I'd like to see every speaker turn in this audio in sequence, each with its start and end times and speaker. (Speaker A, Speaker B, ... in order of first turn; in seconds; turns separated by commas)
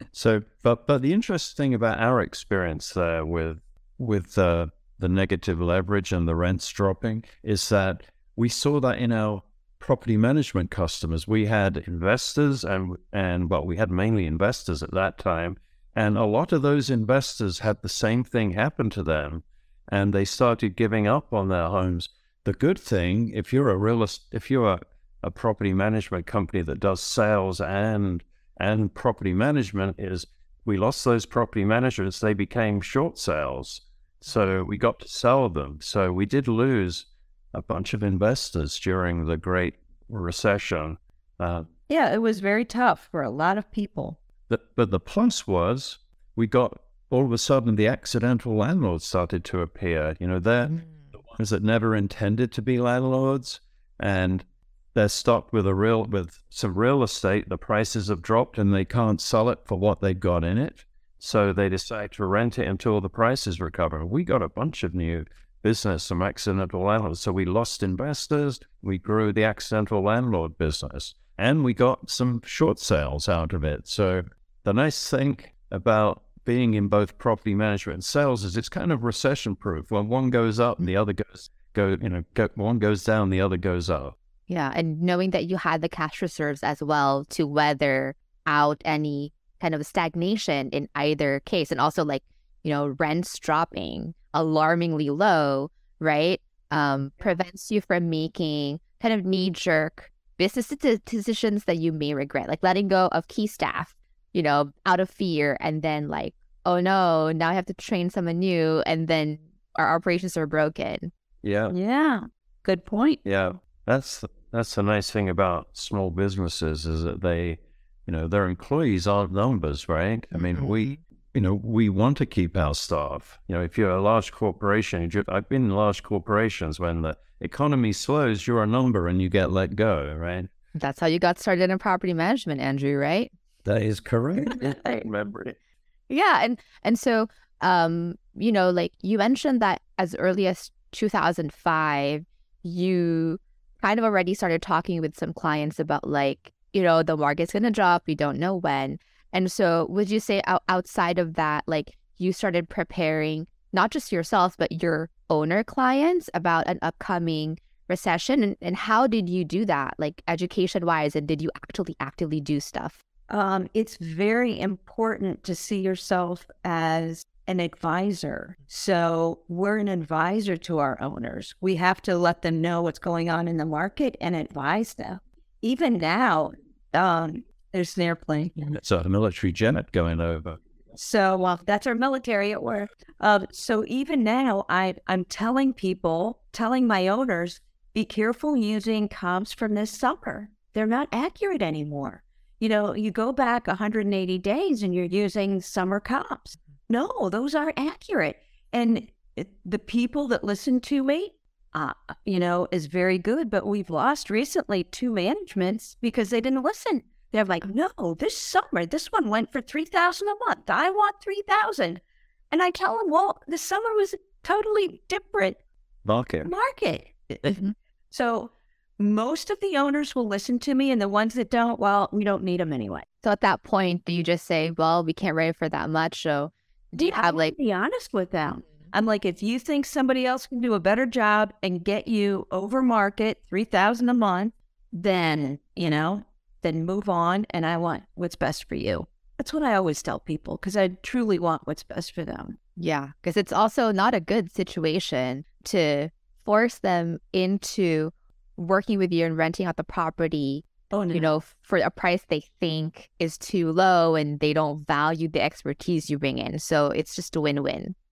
Speaker A: 0.1-41.7, Speaker B: 41.9-44.2, Speaker A: 44.5-84.2, Speaker C: 84.5-111.1, Speaker A: 111.4-111.7, Speaker B: 111.7-113.2, Speaker A: 113.2-130.5, Speaker C: 120.3-121.0, Speaker C: 130.8-133.3, Speaker A: 133.7-135.6, Speaker C: 136.1-163.0, Speaker B: 163.3-178.7, Speaker A: 178.7-180.6, Speaker B: 180.9-215.6, Speaker A: 216.1-216.5, Speaker B: 216.4-223.1, Speaker C: 223.2-227.5, Speaker B: 227.0-242.6, Speaker C: 242.8-257.9, Speaker B: 250.9-251.4